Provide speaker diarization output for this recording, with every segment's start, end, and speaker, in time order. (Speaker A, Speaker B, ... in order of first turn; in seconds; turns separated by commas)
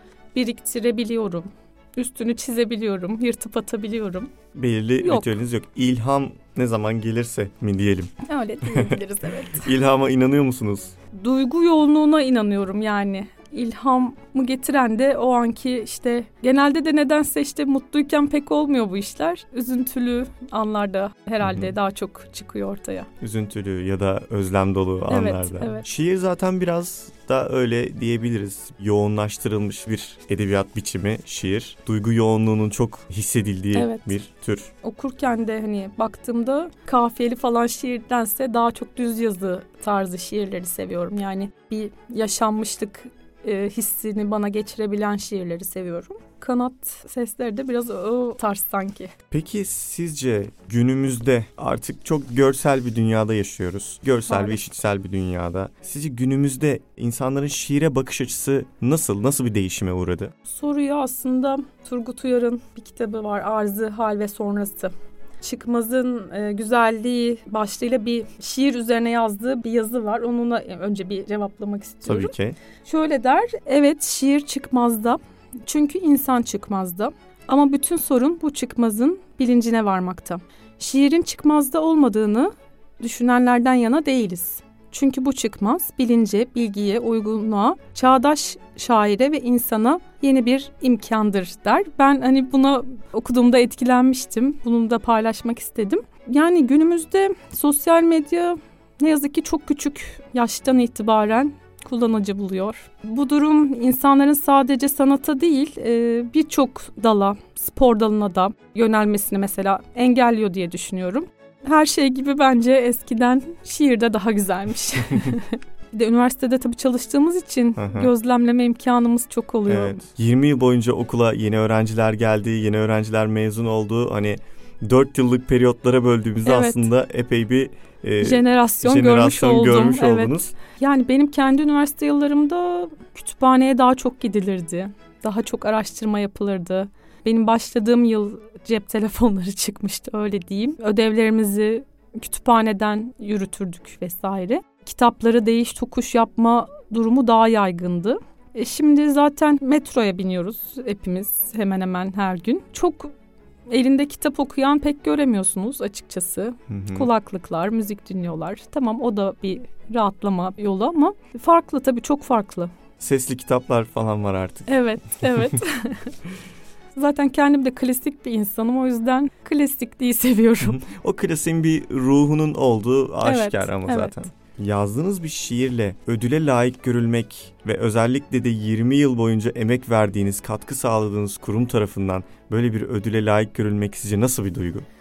Speaker A: 0.3-4.3, Speaker B: 4.5-9.0, Speaker A: 5.0-5.3, Speaker A: 8.2-9.7, Speaker B: 9.6-10.9, Speaker A: 11.1-23.1, Speaker B: 21.4-21.7, Speaker B: 23.2-34.7, Speaker A: 25.1-25.9, Speaker A: 33.7-34.1, Speaker A: 34.8-49.1, Speaker B: 49.3-60.3, Speaker A: 54.3-54.6, Speaker A: 60.4-120.0, Speaker B: 72.0-72.6, Speaker B: 117.8-118.1, Speaker B: 119.7-130.5, Speaker A: 126.5-126.9, Speaker A: 128.2-153.1, Speaker A: 153.7-162.7, Speaker B: 156.7-157.1, Speaker B: 163.0-164.8, Speaker A: 164.7-166.1, Speaker A: 166.9-170.8, Speaker B: 170.8-184.9, Speaker A: 173.2-174.2